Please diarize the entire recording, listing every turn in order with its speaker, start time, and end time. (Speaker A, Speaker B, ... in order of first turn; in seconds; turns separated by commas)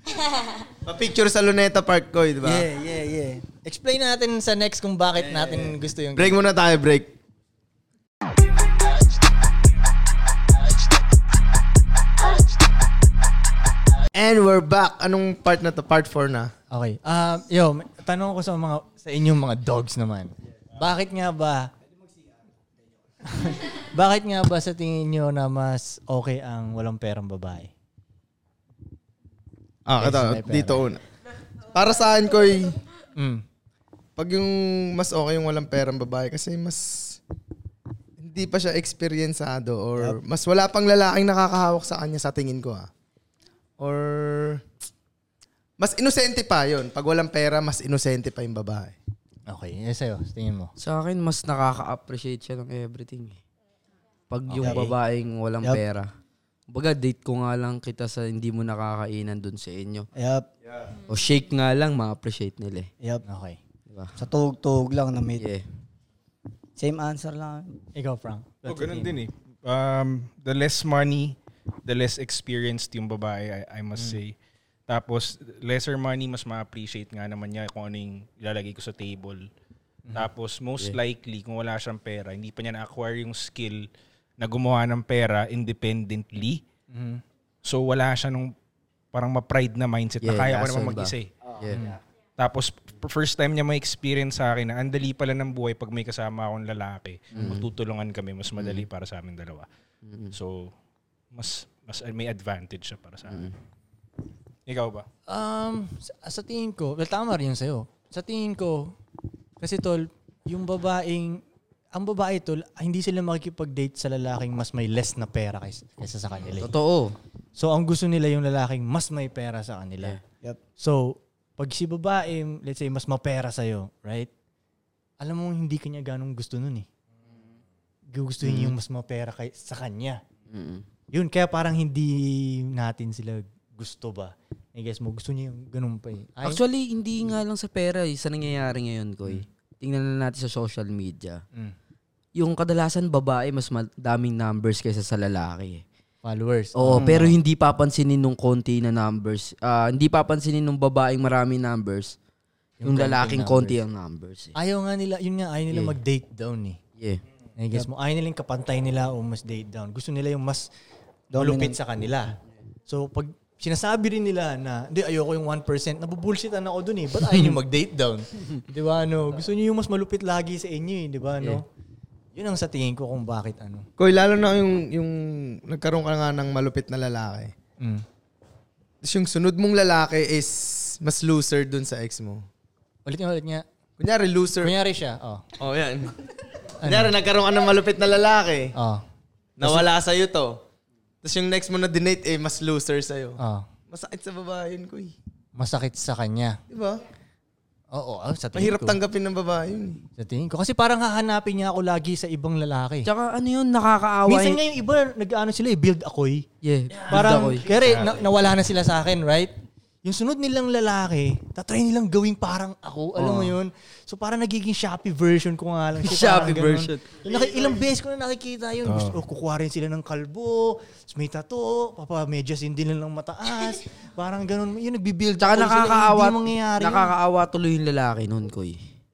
Speaker A: 0.8-2.7, Speaker B: 2.4-6.4, Speaker A: 6.2-7.1, Speaker A: 14.1-16.5, Speaker B: 16.7-21.7, Speaker B: 23.2-27.7, Speaker A: 29.9-31.0, Speaker B: 29.9-30.9, Speaker A: 31.7-32.8, Speaker B: 33.1-33.4, Speaker A: 34.2-37.2, Speaker A: 38.2-42.9, Speaker A: 43.8-44.6, Speaker A: 45.8-49.0, Speaker B: 49.5-50.7, Speaker C: 50.8-53.4, Speaker C: 54.3-56.1, Speaker B: 54.5-54.9, Speaker D: 54.6-54.9, Speaker C: 56.7-60.1, Speaker D: 60.1-60.5, Speaker C: 61.1-62.9, Speaker B: 63.2-63.6, Speaker C: 63.9-64.1, Speaker D: 64.2-65.5, Speaker C: 65.4-65.6, Speaker D: 66.8-67.7, Speaker B: 67.9-69.2, Speaker E: 68.7-74.3, Speaker E: 74.9-79.5, Speaker E: 80.1-83.8, Speaker E: 84.4-86.6, Speaker B: 86.9-87.2, Speaker E: 87.6-88.5, Speaker E: 89.1-91.3, Speaker C: 90.2-91.9, Speaker B: 91.7-92.0, Speaker E: 92.4-99.7, Speaker C: 97.3-97.7, Speaker C: 98.6-98.9, Speaker C: 100.0-100.3, Speaker E: 100.3-100.7, Speaker E: 101.3-103.5, Speaker C: 103.3-103.5, Speaker E: 104.7-105.1, Speaker B: 105.3-109.0, Speaker B: 109.6-116.8, Speaker C: 116.5-117.2, Speaker B: 117.5-120.2, Speaker B: 120.8-124.3, Speaker B: 125.2-126.9, Speaker B: 128.1-130.2, Speaker C: 128.4-128.7, Speaker C: 130.5-130.8, Speaker B: 131.1-136.6, Speaker C: 136.4-141.4, Speaker C: 142.3-145.8, Speaker B: 146.2-147.4, Speaker C: 146.7-152.2, Speaker B: 152.8-153.8, Speaker C: 152.8-154.5, Speaker B: 154.5-156.8, Speaker B: 157.6-160.7, Speaker D: 161.3-161.8, Speaker B: 161.3-162.3, Speaker B: 162.9-171.7, Speaker B: 172.3-173.8, Speaker A: 174.0-177.5, Speaker B: 177.8-178.0, Speaker A: 179.0-182.4, Speaker B: 183.0-183.6, Speaker A: 184.0-184.7, Speaker B: 184.6-185.4, Speaker A: 185.6-186.2, Speaker B: 186.8-187.1, Speaker A: 186.8-188.8, Speaker B: 188.7-189.0, Speaker A: 189.6-190.6, Speaker B: 189.6-189.9, Speaker A: 191.2-195.1, Speaker B: 193.4-193.7, Speaker B: 195.6-196.6, Speaker A: 196.7-197.0, Speaker B: 197.9-199.0, Speaker A: 198.5-200.0, Speaker B: 200.2-203.1, Speaker C: 203.0-204.6, Speaker B: 204.3-206.4, Speaker C: 206.6-207.7, Speaker B: 207.0-209.5, Speaker B: 210.0-227.1, Speaker C: 213.2-213.6, Speaker C: 216.0-217.2, Speaker E: 218.8-219.2, Speaker C: 225.4-228.9